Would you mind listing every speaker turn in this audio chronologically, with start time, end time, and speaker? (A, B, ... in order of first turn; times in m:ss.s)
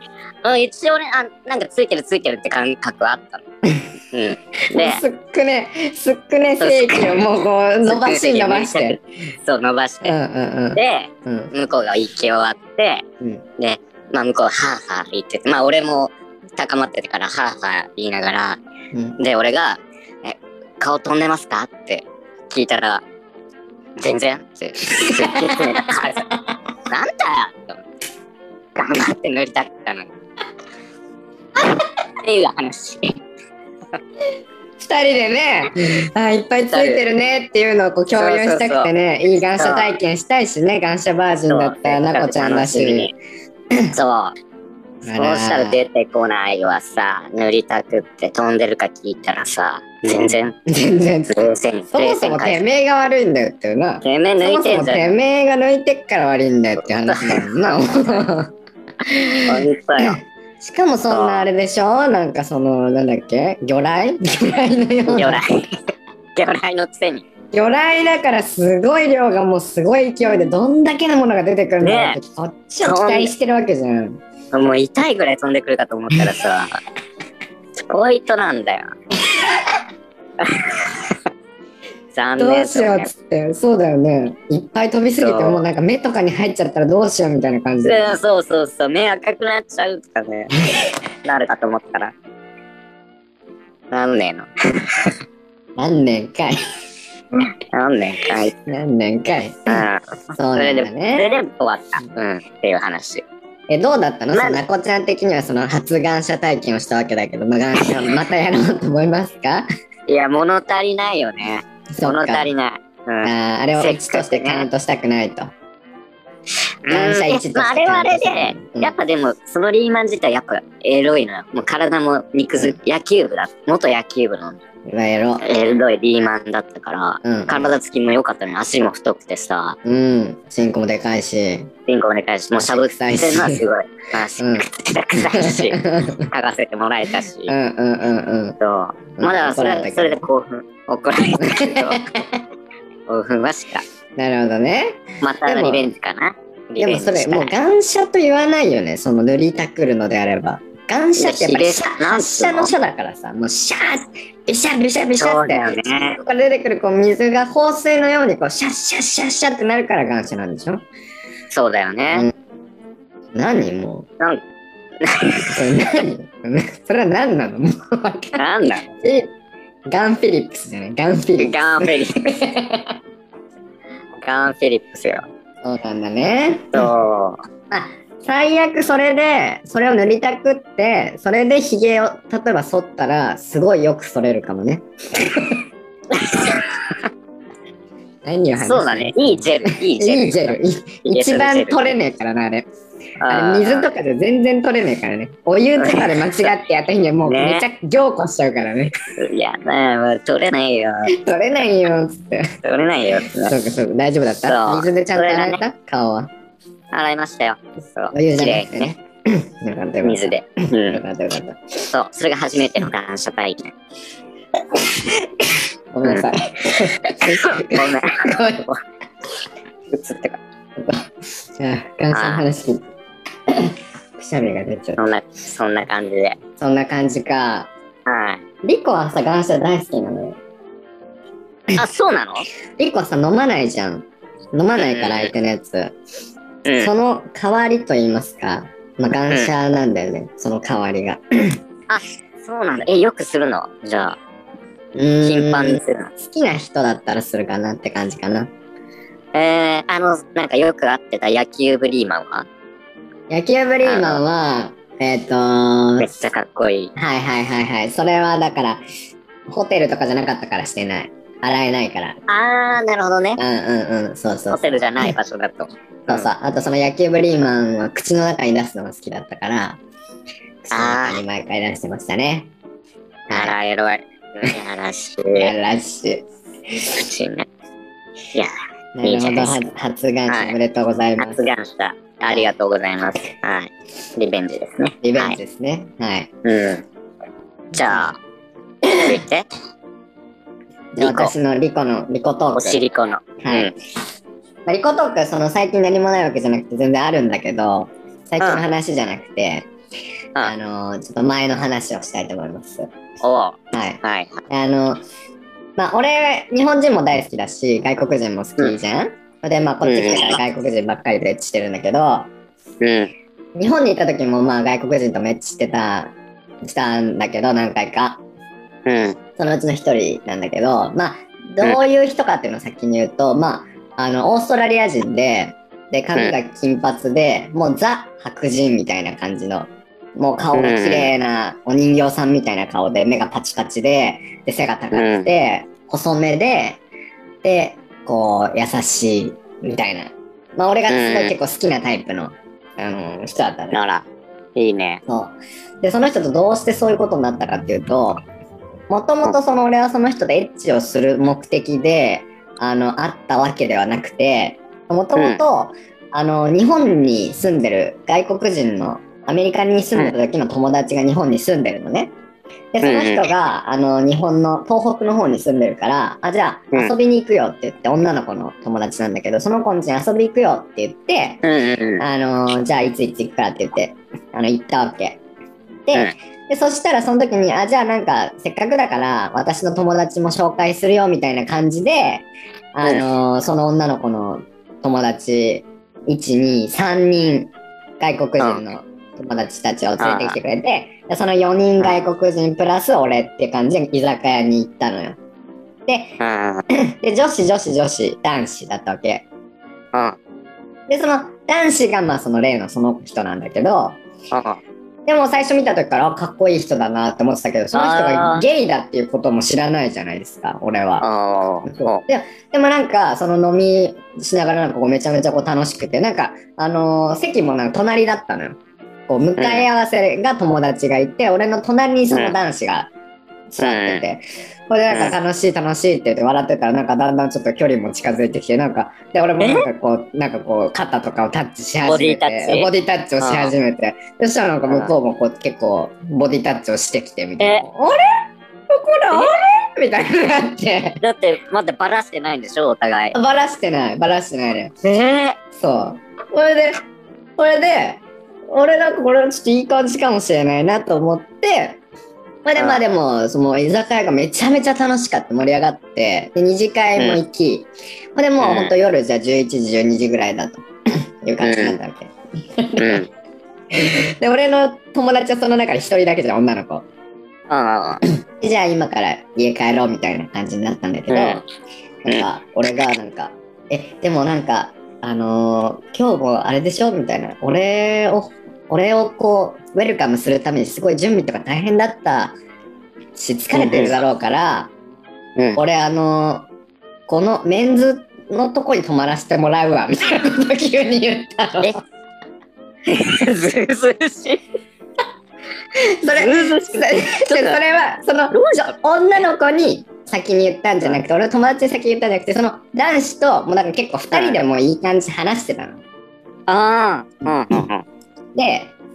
0:00.4-0:03.4 A
0:04.1-0:05.0 A
0:04.7-0:09.0 B
0:06.6-0:07.2 A
0:07.8-0:10.2 A
0:10.0-0:11.5 B
0:10.7-0:13.0 A
0:13.6-0:18.6 A
0:18.9-0:19.2 B
0:19.2-0:23.0 A
0:24.0-0:26.2 A
0:25.0-0:26.3 B
0:26.9-0:27.8 A
0:28.8-0:30.1 A
0:31.7-0:33.2 A
0:34.8-0:43.1 B
0:36.7-0:37.0 A
0:38.1-0:38.9 A
0:39.5-0:39.9 A
0:41.5-0:43.1 A
0:43.9-0:44.3 A
0:45.0-0:45.8 B
0:45.1-0:50.6 A
0:50.7-0:58.5 B
0:51.3-0:52.6 A
0:54.0-0:55.1 A
0:57.0-0:58.2 A
0:59.0-1:05.4 B
0:59.4-1:00.2 A
1:01.1-1:01.4 A
1:05.1-1:05.7 A
1:06.3-1:07.2 A
1:07.5-1:14.2 B
1:11.8-1:12.2 A
1:12.8-1:13.3 A
1:14.5-1:16.8 A
1:17.8-1:18.9 A
1:19.3-1:19.6 B
1:20.4-1:21.2 A
1:22.1-1:23.1 A
1:22.4-1:28.2 B
1:25.2-1:25.6 A
1:27.8-1:30.6 A
1:31.2-1:32.1 A
1:33.9-1:35.1 A
1:35.8-1:36.6 B
1:37.7-1:38.5 A
1:38.7-1:41.3 B
1:39.7-1:43.2 A
1:43.7-1:49.6 B
1:44.3-1:44.6 A
1:50.1-1:54.7 A
1:51.9-1:52.5 B
1:53.2-1:55.5 B
1:56.8-2:04.6 A
1:56.9-1:58.9 B
2:04.9-2:05.4 B
2:05.4-2:09.8 A
2:07.2-2:07.7 B
2:09.8-2:11.7 B
2:11.9-2:17.5 A
2:12.6-2:13.6 B
2:14.4-2:14.6 B
2:15.2-2:16.3 B
2:17.5-2:18.6 B
2:18.6-2:22.0 A
2:19.2-2:20.2 B
2:21.4-2:22.4 B
2:23.1-2:23.8 A
2:24.2-2:25.9 B
2:25.2-2:27.5 A
2:26.8-2:40.8 B
2:31.2-2:32.7 A
2:35.2-2:36.2 A
2:41.5-2:42.3 A
2:43.3-2:44.1 B
2:45.0-2:45.6 A
2:45.5-2:48.4 B
2:48.4-2:48.9 A
2:49.0-2:49.3 B
2:49.9-2:52.9 B
2:51.4-2:52.4 A
2:54.2-2:55.2 A
2:55.6-2:56.9 B
2:56.7-2:57.4 A
2:57.7-3:05.6 B
3:06.1-3:07.0 A
3:08.2-3:12.7 B
3:08.6-3:12.0 A
3:13.2-3:13.9 A
3:13.3-3:18.9 B
3:15.8-3:16.5 A
3:17.2-3:17.6 A
3:19.2-3:21.1 A
3:21.1-3:22.5 B
3:22.6-3:23.5 A
3:23.4-3:26.3 B
3:24.4-3:25.6 A
3:26.9-3:28.9 A
3:28.1-3:30.3 B
3:30.0-3:31.0 A
3:30.9-3:31.8 B
3:31.9-3:33.7 A
3:34.9-3:38.6 B
3:36.0-3:36.3 A
3:37.1-3:38.8 A
3:39.9-3:40.4 A
3:40.8-3:41.0 B
3:41.6-3:42.8 B
3:42.1-3:42.4 A
3:43.5-3:45.0 B
3:45.0-3:46.4 A
3:46.6-3:47.7 B
3:48.0-3:48.4 A
3:48.6-3:50.4 B
3:51.8-3:52.5 A
3:52.8-3:55.9 B
3:54.8-3:55.3 A
3:56.6-3:56.9 A
3:56.8-4:01.2 B
4:01.9-4:04.2 A
4:04.9-4:08.5 B
4:05.2-4:06.1 A
4:09.3-4:12.5 A
4:13.3-4:16.1 B
4:13.8-4:14.2 A
4:16.0-4:16.9 A
4:17.0-4:18.8 B
4:19.5-4:22.2 B
4:22.3-4:23.4 A
4:23.4-4:25.1 B
4:24.5-4:26.3 A
4:26.1-4:29.8 B
4:30.6-4:32.5 B
4:30.7-4:31.2 A
4:33.3-4:33.5 B
4:33.3-4:35.5 A
4:35.3-4:37.0 B
4:36.9-4:37.5 A
4:39.0-4:41.4 B
4:39.0-4:39.6 A
4:40.3-4:40.5 A
4:41.2-4:45.4 A
4:45.0-4:46.3 B
4:46.4-4:46.8 A
4:47.7-4:48.1 B
4:47.7-4:48.2 A
4:48.9-4:49.2 B
4:48.9-4:49.4 A
4:50.9-4:52.8 B
4:51.0-4:51.3 A
4:52.5-4:53.7 A
4:53.4-4:53.7 B
4:54.6-4:59.7 B
5:00.4-5:02.8 B
5:03.2-5:04.4 A
5:03.7-5:05.0 B
5:05.8-5:12.3 B
5:09.8-5:10.4 A
5:12.8-5:13.1 A
5:13.6-5:18.2 B
5:18.8-5:19.2 A
5:19.4-5:36.8 B
5:30.5-5:31.1 A
5:34.9-5:35.3 A
5:37.4-5:43.8 B
5:40.9-5:41.3 A
5:43.7-5:45.0 A
5:45.1-5:48.2 B
5:48.9-6:02.1 B
5:55.2-5:55.4 A
6:02.7-6:11.4 B
6:02.8-6:03.3 A
6:11.4-6:12.0 A
6:12.0-6:15.2 B
6:15.8-6:35.2 B
6:30.0-6:30.4 A
6:35.9-6:36.2 B
6:36.2-6:36.6 A
6:36.7-6:39.2 B
6:40.9-6:44.0 B
6:44.3-6:44.6 A
6:45.0-6:51.0 B
6:47.7-6:48.4 A
6:51.0-6:52.0 A
6:51.6-6:58.6 B
6:59.1-7:02.9 B
6:59.4-6:59.7 A
7:03.5-7:18.0 B
7:03.6-7:04.0 A
7:09.4-7:09.6 A
7:11.9-7:12.7 A
7:13.2-7:13.5 A
7:14.7-7:14.9 A
7:17.4-7:17.6 A
7:18.7-7:21.0 B
7:21.0-7:23.2 A
7:23.1-7:24.7 B
7:24.8-7:25.4 A
7:25.5-7:26.8 B
7:27.4-7:31.8 B
7:32.4-7:43.0 B
7:38.4-7:38.7 A
7:41.4-7:41.8 A
7:42.8-7:43.1 A
7:43.7-7:46.8 B
7:47.5-7:48.0 A
7:48.4-7:51.4 B
7:51.1-7:51.4 A
7:52.0-8:02.3 B
8:03.1-8:04.7 B
8:03.5-8:04.0 A
8:05.6-8:06.5 B
8:07.1-8:11.8 B
8:12.9-8:14.4 A
8:15.8-8:25.8 B
8:16.2-8:17.6 A
8:18.3-8:18.7 A
8:24.1-8:24.4 A
8:26.5-8:27.8 A
8:28.3-8:28.7 B